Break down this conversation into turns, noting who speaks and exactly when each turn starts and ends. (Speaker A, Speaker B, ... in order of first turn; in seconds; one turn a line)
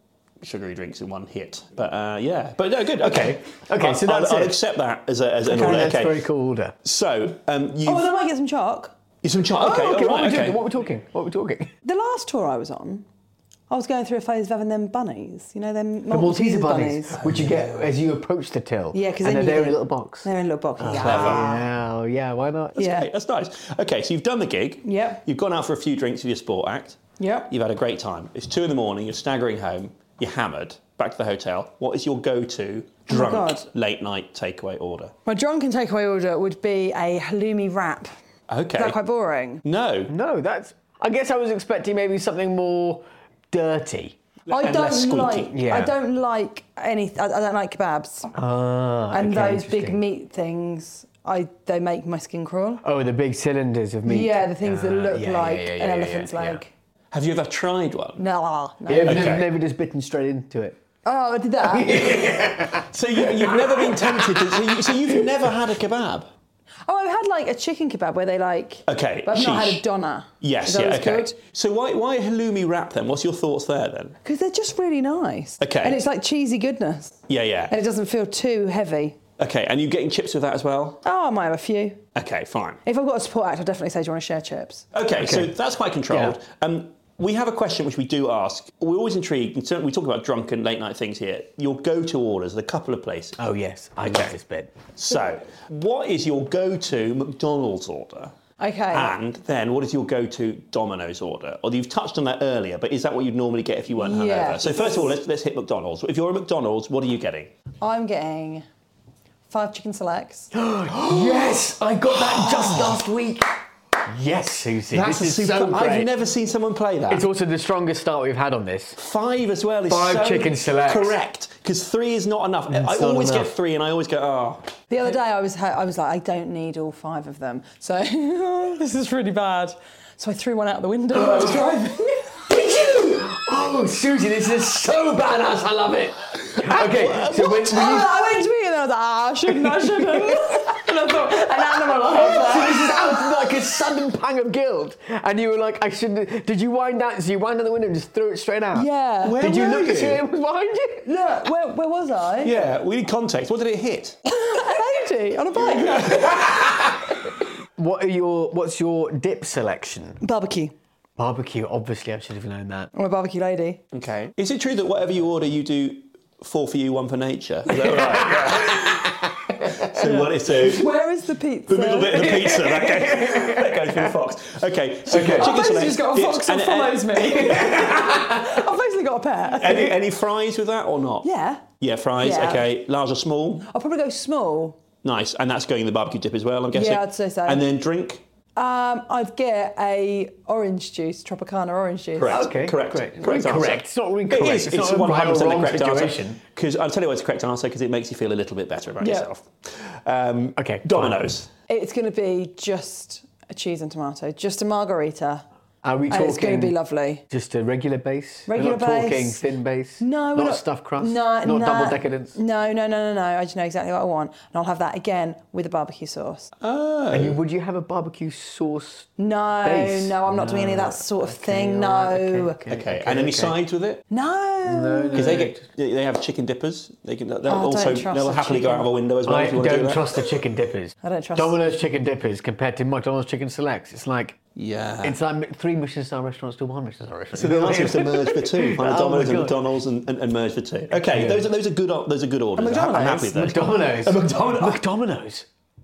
Speaker A: 0.4-6.3
Speaker B: 3.0-4.6
Speaker B: 5.5-6.7
Speaker C: 5.5-5.8
Speaker A: 6.8-8.1
Speaker C: 7.8-8.9
Speaker A: 9.2-10.6
Speaker B: 9.6-11.7
Speaker C: 11.8-13.0
Speaker C: 13.7-17.2
Speaker B: 16.1-22.9
Speaker A: 17.2-17.9
Speaker C: 18.9-21.6
Speaker A: 21.0-21.5
Speaker C: 22.8-23.1
Speaker A: 22.8-35.1
Speaker C: 24.8-25.2
Speaker C: 27.2-27.5
Speaker C: 33.1-33.6
Speaker C: 35.2-38.1
Speaker A: 38.5-39.0
Speaker C: 38.8-39.6
Speaker A: 39.6-40.1
Speaker B: 40.1-44.2
Speaker A: 44.5-45.5
Speaker C: 44.5-48.3
Speaker B: 45.5-45.9
Speaker B: 48.3-50.0
Speaker C: 49.1-52.8
Speaker B: 52.8-56.6
Speaker C: 54.0-56.7
Speaker A: 57.1-58.2
Speaker C: 58.2-59.3
Speaker B: 58.9-60.8
Speaker A: 59.0-59.5
Speaker C: 61.0-62.3
Speaker B: 61.6-65.3
Speaker A: 62.7-66.3
Speaker C: 66.8-71.3
Speaker A: 68.9-69.8
Speaker A: 70.4-74.2
Speaker C: 74.2-77.2
Speaker A: 75.6-76.0
Speaker A: 77.3-77.7
Speaker C: 77.7-79.2
Speaker A: 79.4-81.0
Speaker C: 81.0-82.0
Speaker A: 82.1-82.8
Speaker C: 82.8-84.8
Speaker A: 84.9-93.4
Speaker B: 85.2-85.5
Speaker B: 86.1-86.3
Speaker B: 93.4-94.8
Speaker A: 95.0-98.3
Speaker C: 98.6-99.1
Speaker A: 98.9-107.5
Speaker C: 103.9-105.2
Speaker C: 107.8-108.6
Speaker C: 109.5-110.5
Speaker B: 110.5-113.5
Speaker A: 112.2-113.0
Speaker B: 114.0-116.1
Speaker A: 114.9-117.2
Speaker B: 117.1-119.0
Speaker A: 119.0-124.7
Speaker B: 119.9-121.2
Speaker B: 122.7-123.5
Speaker C: 124.9-132.2
Speaker B: 131.2-131.7
Speaker B: 132.3-138.1
Speaker A: 136.5-138.1
Speaker C: 137.3-143.3
Speaker B: 139.6-151.1
Speaker C: 148.7-149.4
Speaker A: 149.2-150.2
Speaker C: 151.0-152.6
Speaker A: 152.4-154.2
Speaker C: 154.3-156.4
Speaker B: 156.4-156.7
Speaker B: 157.8-160.2
Speaker C: 160.2-160.7
Speaker B: 161.2-162.9
Speaker C: 162.9-163.8
Speaker A: 163.9-170.9
Speaker B: 167.8-170.0
Speaker C: 170.1-172.6
Speaker A: 171.7-178.4
Speaker B: 172.3-174.1
Speaker B: 175.1-175.6
Speaker C: 175.3-179.9
Speaker A: 179.6-181.3
Speaker C: 181.2-181.6
Speaker A: 181.8-183.7
Speaker C: 182.2-182.7
Speaker C: 183.7-184.8
Speaker A: 185.0-188.2
Speaker C: 186.7-187.6
Speaker C: 188.6-192.4
Speaker A: 192.2-201.5
Speaker B: 192.2-196.4
Speaker C: 199.0-199.3
Speaker B: 200.6-201.3
Speaker C: 201.7-205.4
Speaker B: 205.8-206.8
Speaker C: 206.1-207.2
Speaker B: 207.3-212.4
Speaker C: 208.5-209.4
Speaker C: 210.0-216.5
Speaker A: 216.6-217.4
Speaker B: 217.1-223.5
Speaker C: 219.2-222.6
Speaker A: 222.7-224.0
Speaker C: 224.1-225.4
Speaker B: 224.7-225.6
Speaker A: 225.1-230.1
Speaker C: 227.4-228.9
Speaker B: 229.2-234.4
Speaker C: 231.0-231.6
Speaker A: 234.6-235.2
Speaker B: 235.0-239.6
Speaker A: 237.3-244.8
Speaker B: 241.1-241.5
Speaker C: 242.6-243.3
Speaker B: 243.2-245.5